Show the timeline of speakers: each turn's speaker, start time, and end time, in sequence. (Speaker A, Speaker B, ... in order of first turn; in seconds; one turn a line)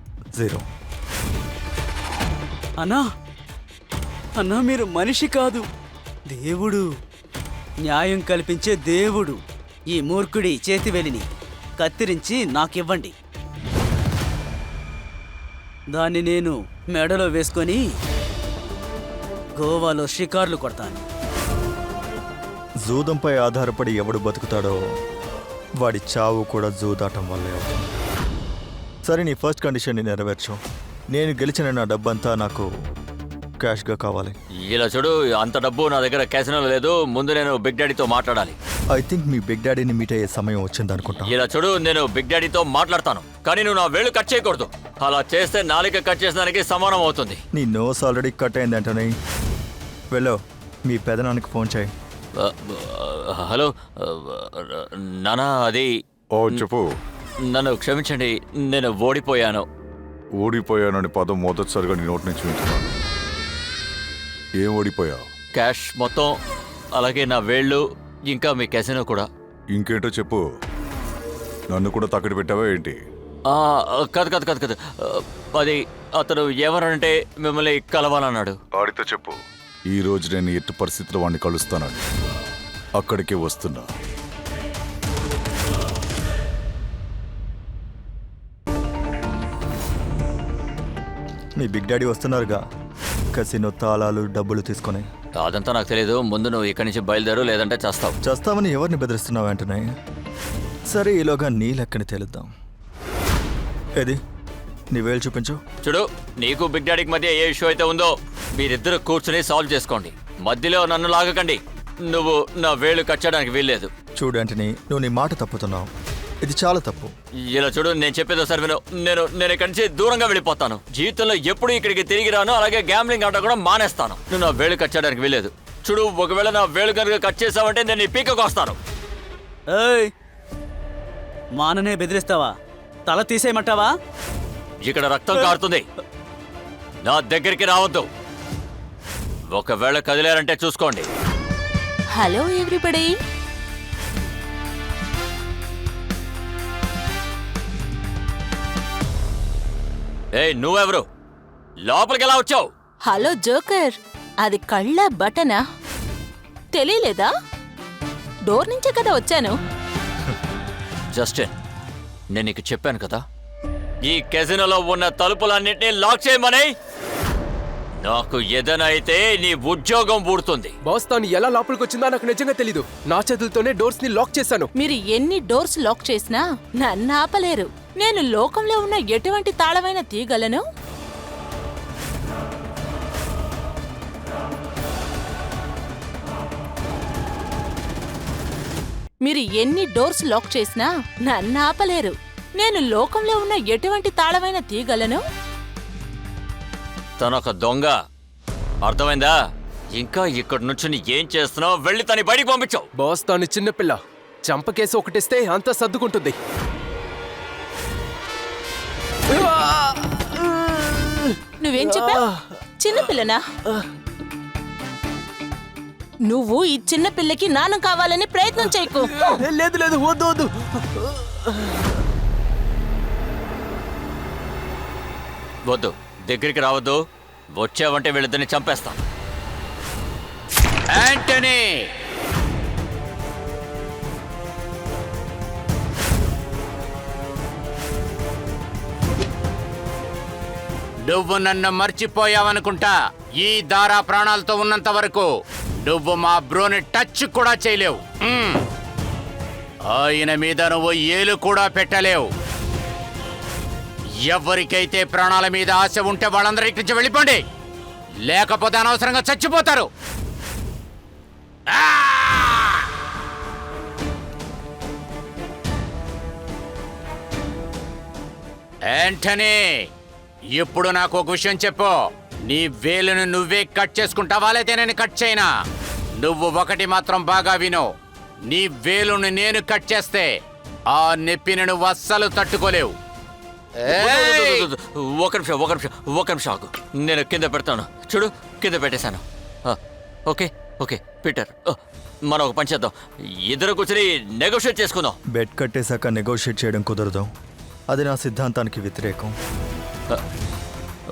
Speaker A: 0.4-0.6
Speaker B: 4.4-5.7
Speaker B: 6.3-6.9
Speaker B: 7.8-11.3
Speaker B: 11.8-13.1
Speaker B: 15.9-17.8
Speaker B: 19.6-21.0
Speaker A: 22.9-24.8
Speaker A: 25.8-27.8
Speaker A: 29.1-30.6
Speaker A: 31.1-32.7
Speaker A: 33.6-34.4
Speaker C: 34.7-38.6
Speaker A: 39.0-41.3
Speaker C: 41.2-47.4
Speaker A: 47.5-49.1
Speaker A: 50.1-51.9
Speaker C: 52.4-55.9
Speaker D: 56.4-56.9
Speaker C: 57.5-59.7
Speaker D: 60.4-62.9
Speaker D: 64.6-65.2
Speaker C: 65.5-66.3
Speaker C: 67.0-69.3
Speaker D: 69.8-70.4
Speaker D: 71.7-73.0
Speaker C: 73.5-78.6
Speaker D: 78.8-79.4
Speaker D: 79.9-82.0
Speaker D: 83.0-83.9
Speaker A: 91.6-92.6
Speaker A: 93.3-95.1
Speaker C: 95.4-98.2
Speaker A: 98.2-99.9
Speaker A: 100.9-102.5
Speaker A: 104.9-105.6
Speaker C: 105.8-113.9
Speaker A: 114.2-115.9
Speaker A: 116.4-117.1
Speaker C: 117.5-128.8
Speaker B: 129.7-130.1
Speaker B: 131.6-132.6
Speaker B: 133.1-133.9
Speaker C: 134.8-135.8
Speaker C: 137.0-138.1
Speaker C: 139.5-141.1
Speaker E: 142.1-143.2
Speaker C: 150.3-151.1
Speaker C: 151.8-152.7
Speaker E: 153.1-155.6
Speaker E: 156.7-157.3
Speaker E: 158.5-159.5
Speaker C: 161.1-161.5
Speaker C: 162.3-163.2
Speaker C: 164.1-166.7
Speaker C: 168.0-170.7
Speaker F: 170.9-174.7
Speaker E: 174.8-180.6
Speaker E: 189.2-195.2
Speaker C: 197.2-198.0
Speaker C: 198.8-199.4
Speaker C: 199.9-202.9
Speaker F: 203.0-206.4
Speaker F: 209.8-210.2
Speaker E: 211.6-212.3
Speaker E: 212.8-213.4
Speaker E: 216.3-219.3
Speaker F: 219.5-220.5
Speaker C: 225.7-227.0
Speaker C: 227.5-229.0
Speaker G: 230.9-231.9
Speaker G: 241.1-245.3
Speaker G: 245.8-248.6
Speaker G: 249.9-252.3
Speaker G: 254.2-257.4
Speaker G: 258.3-259.9
Speaker G: 261.7-262.8
Speaker G: 268.8-269.9
Speaker G: 270.5-275.5
Speaker G: 276.2-277.9
Speaker G: 278.4-280.3
Speaker G: 280.9-282.9
Speaker G: 283.9-284.7
Speaker C: 283.9-291.8
Speaker C: 292.3-292.9
Speaker C: 293.5-295.2
Speaker A: 295.3-297.3
Speaker A: 297.9-299.3